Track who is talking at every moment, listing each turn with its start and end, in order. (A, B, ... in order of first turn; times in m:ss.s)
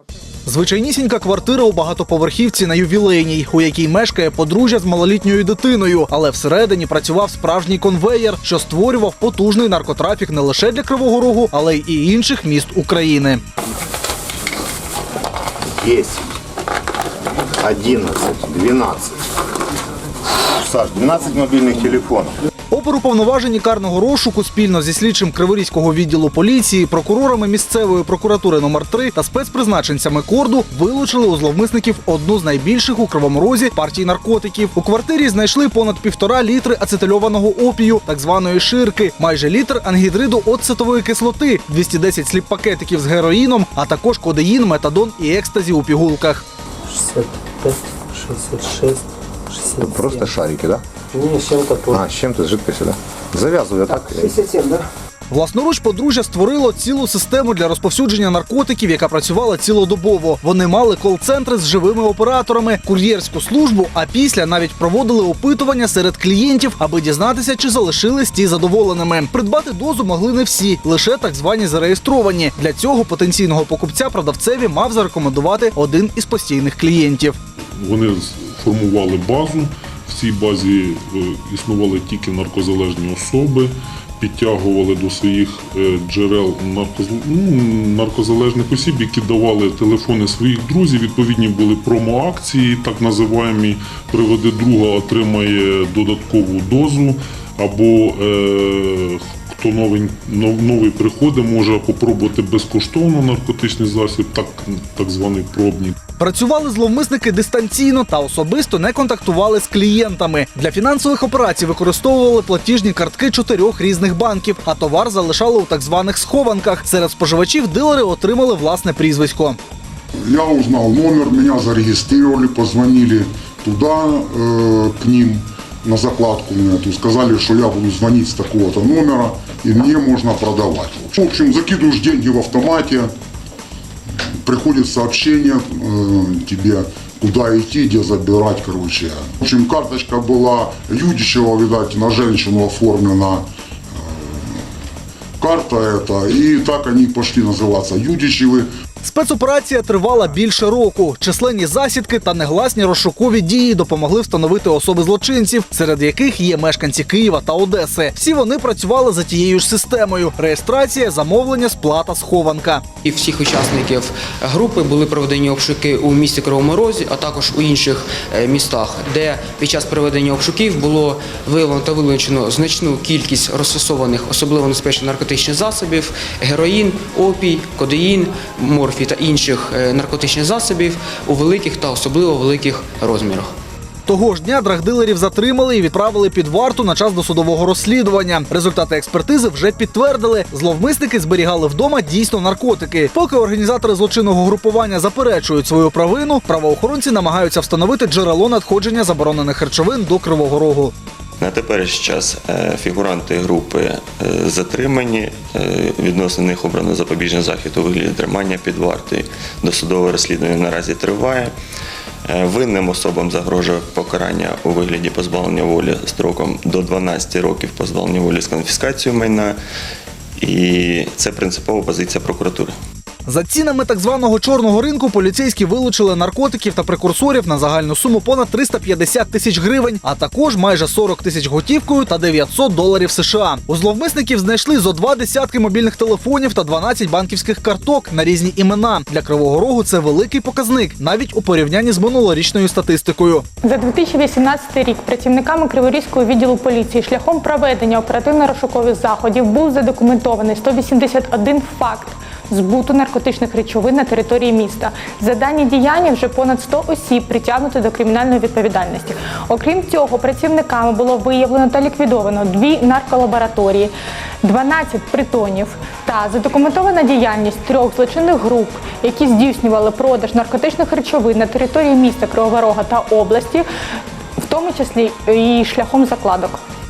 0:00.4-0:13.4 A
0:15.7-0:16.3 B
0:17.6-0:19.1 B
0:20.5-0:22.3 B
0:22.7-0:46.4 A
0:46.9-0:50.3 C
0:49.8-0:50.8 B
0:51.1-0:52.0 C
0:51.9-0:54.3 B
0:53.9-0:54.8 C
0:55.3-1:17.4 A
1:17.8-1:46.0 D
1:46.2-1:59.6 A
2:00.3-2:13.1 E
2:14.4-2:23.4 E
2:24.0-2:24.6 E
2:25.4-2:28.7 E
2:29.0-2:42.8 A
2:43.0-3:03.5 F
3:04.1-3:20.9 A
3:21.4-3:31.5 G
3:32.3-3:39.6 G
3:40.4-3:42.7 G
3:43.2-4:03.4 A
4:03.6-4:23.9 H
4:24.4-4:33.6 H
4:34.4-4:36.6 H